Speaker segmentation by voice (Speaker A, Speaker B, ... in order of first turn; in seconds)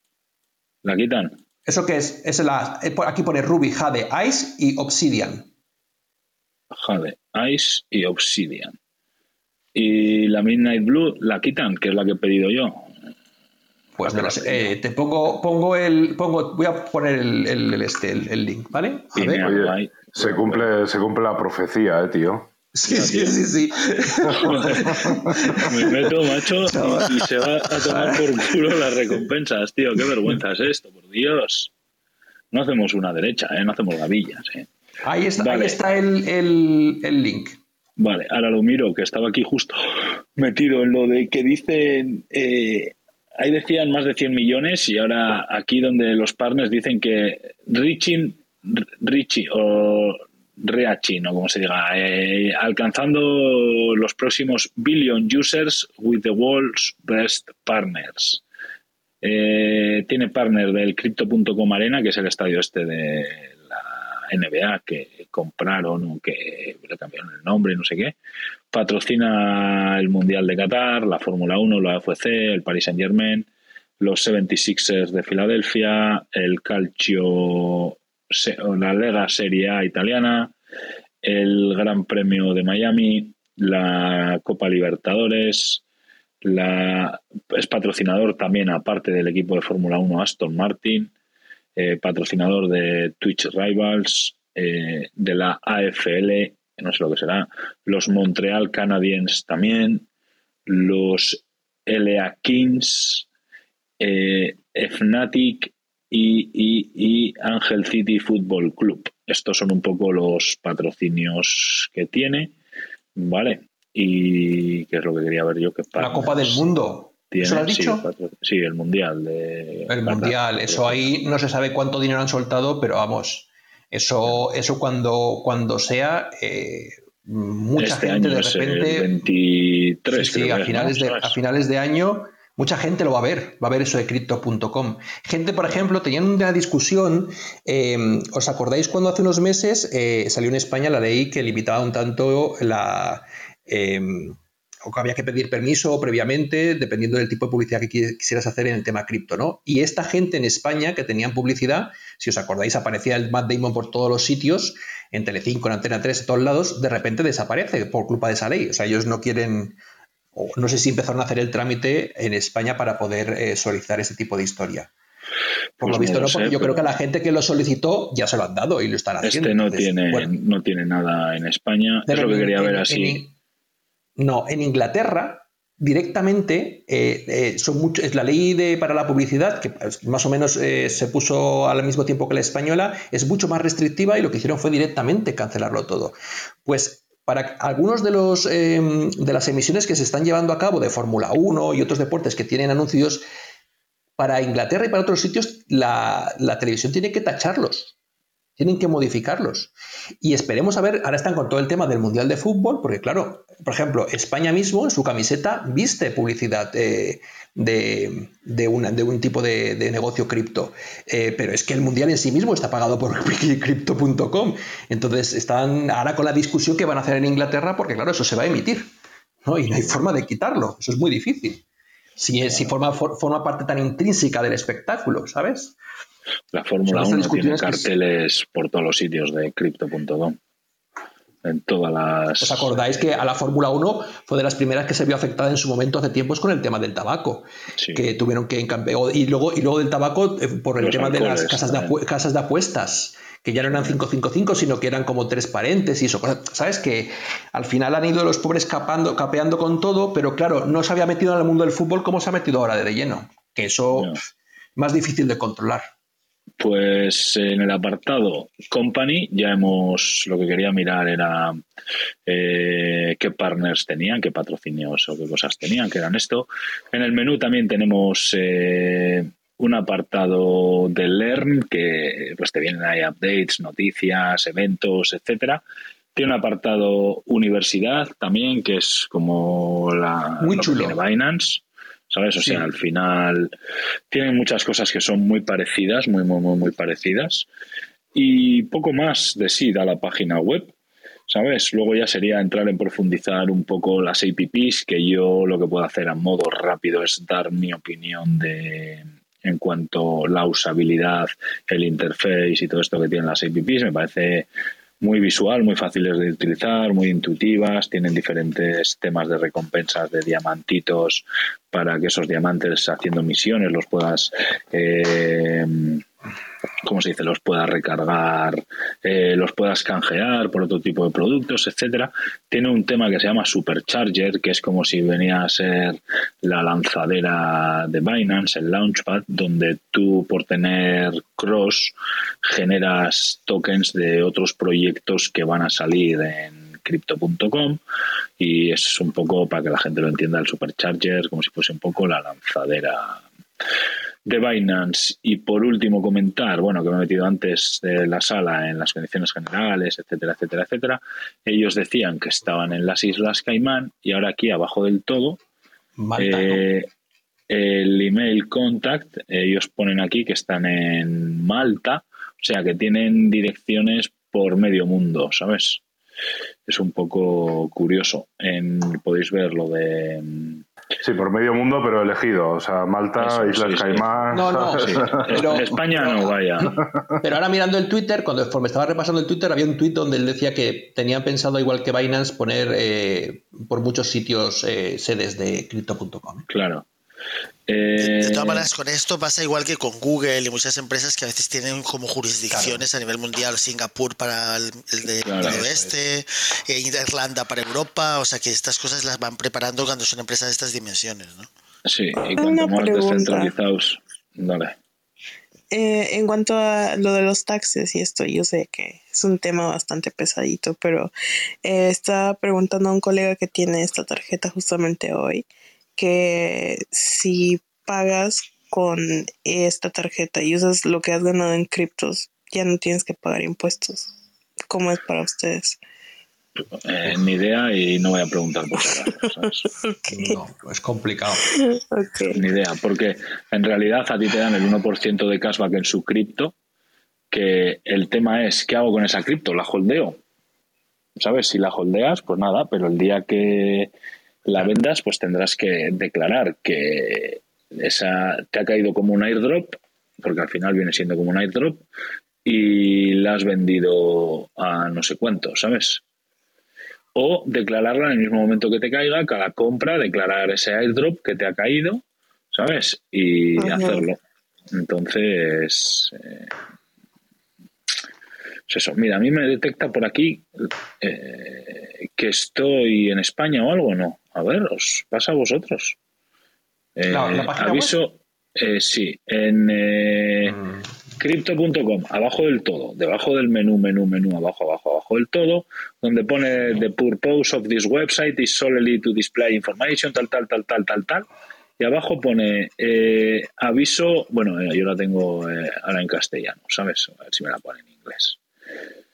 Speaker A: 0.8-1.4, 6.7-8.7, 9.7-12.9, 14.0-14.7, 19.1-20.7, 22.9-23.4, 24.6-25.0, 25.6-31.7, 32.5-34.7, 35.4-35.8, 38.0-58.4, 59.2-68.1, 68.7-73.5, 74.0-80.5, 81.2-85.8, 86.4-91.1, 91.8-100.0, 100.7-103.2, 104.0-112.5, 113.2-116.6, 117.3-121.1, 127.8-131.3, 165.8-166.9, 169.2-173.2, 222.4-222.7, 226.5-230.4, 231.4-232.7, 237.8-238.0, 240.8-241.9, 243.7-244.0, 256.6-261.6, 262.3-275.6, 276.1-283.5, 284.1-287.5, 288.1-290.7, 291.3-304.5, 305.0-316.0, 316.8-337.8, 338.4-343.2, 344.2-355.4, 356.2-356.9, 357.5-365.8, 366.7-370.6, 373.2-376.7, 386.5-386.9, 387.7-388.7, 395.2-395.6, 401.8-404.8, 426.8-429.7, 432.2-436.5, 437.3-440.2, 441.2-443.9, 444.4-451.8, 452.4-456.0, 457.1-464.2, 464.7-466.5, 468.7-476.0, 477.0-480.6, 481.2-491.2, 491.8-498.4
Speaker B: 1.6-5.5, 14.0-19.5, 22.7-26.1, 26.6-28.2, 35.0-37.6, 116.0-118.1, 119.9-129.1, 130.1-159.8, 160.3-164.9, 165.8-170.3, 172.1-173.3, 174.2-193.2, 194.2-197.9, 198.6-218.9, 219.4-221.6, 222.2-225.7, 226.9-227.9, 232.4-254.2, 254.8-255.9, 280.4-281.0, 282.4-282.7, 356.0-356.6, 374.3-376.4, 377.2-386.4, 392.5-392.9, 395.4-395.9, 430.1-431.4, 477.1-477.9, 480.5-480.8
Speaker C: 19.4-22.5, 24.6-25.4, 371.0-375.6
Speaker D: 388.0-401.5
Speaker E: 402.3-403.5, 405.7-411.1, 411.6-424.1, 424.7-425.8, 429.8-430.4, 431.5-432.4, 463.6-464.0